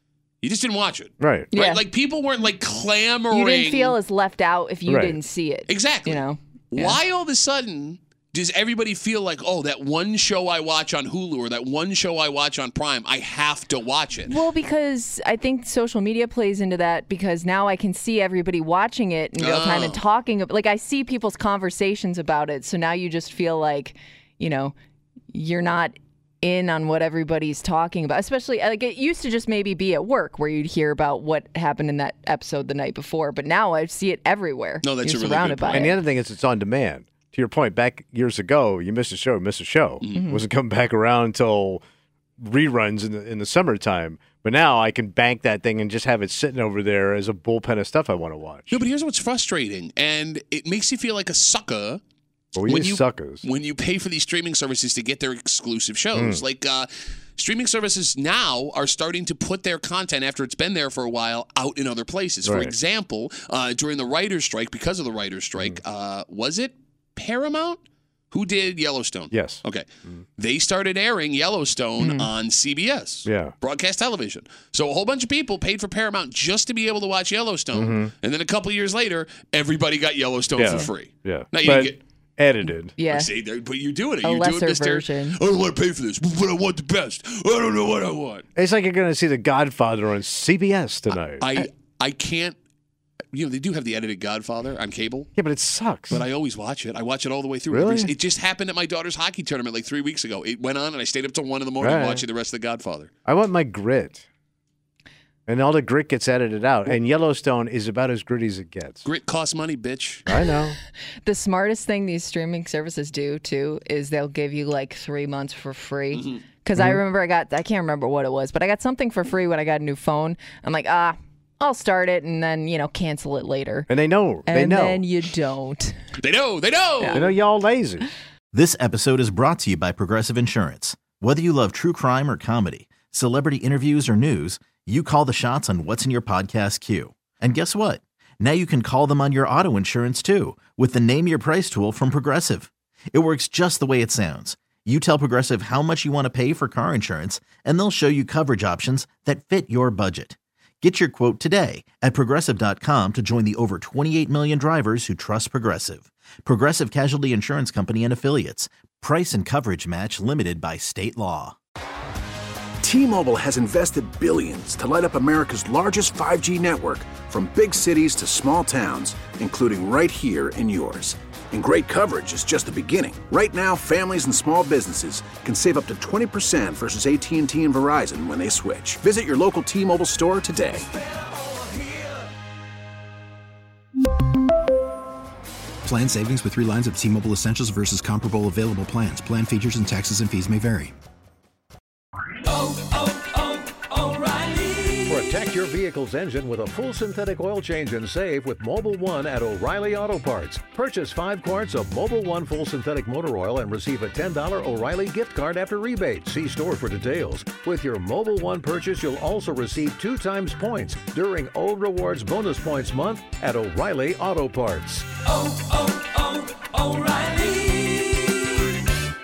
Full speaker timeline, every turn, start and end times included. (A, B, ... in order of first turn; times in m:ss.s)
0:00.4-0:04.0 A
0:01.2-0:01.5 B
0:01.5-0:01.8 C
0:03.3-0:07.0 C
0:04.9-0:05.2 B
0:05.7-0:06.2 A
0:06.7-0:14.4 A
0:14.3-0:24.7 C
0:19.4-0:20.0 A
0:25.3-0:36.0 C
0:34.8-0:35.9 A
0:35.7-0:41.8 B
0:40.1-0:40.4 C
0:42.4-0:48.8 B
0:48.7-0:52.0 A
0:52.6-0:53.4 B
0:52.6-1:09.8 A
0:56.1-0:56.4 B
1:02.4-1:02.7 B
1:09.3-1:10.2 B
1:10.4-1:22.0 A
1:13.2-1:13.5 B
1:17.7-1:18.1 B
1:20.6-1:22.9 B
1:23.0-1:23.3 C
1:23.0-1:28.4 A
1:24.2-1:25.4 C
1:28.5-1:31.4 B
1:31.4-1:32.6 A
1:33.3-1:35.3 A
1:35.4-1:36.2 B
1:36.1-1:43.1 A
1:37.7-1:38.1 B
1:41.8-1:42.2 B
1:43.2-1:44.2 B
1:45.5-1:49.0 B
1:49.0-1:50.2 A
1:50.3-1:50.8 B
1:51.2-2:03.9 C
1:56.8-1:57.0 B
2:03.9-2:05.0 B
2:04.4-2:05.9 C
2:06.2-2:07.3 A
2:07.1-2:08.1 B
2:08.5-2:41.6 D
2:42.8-3:00.9 E
3:05.8-3:10.9 F
3:15.0-3:35.2 G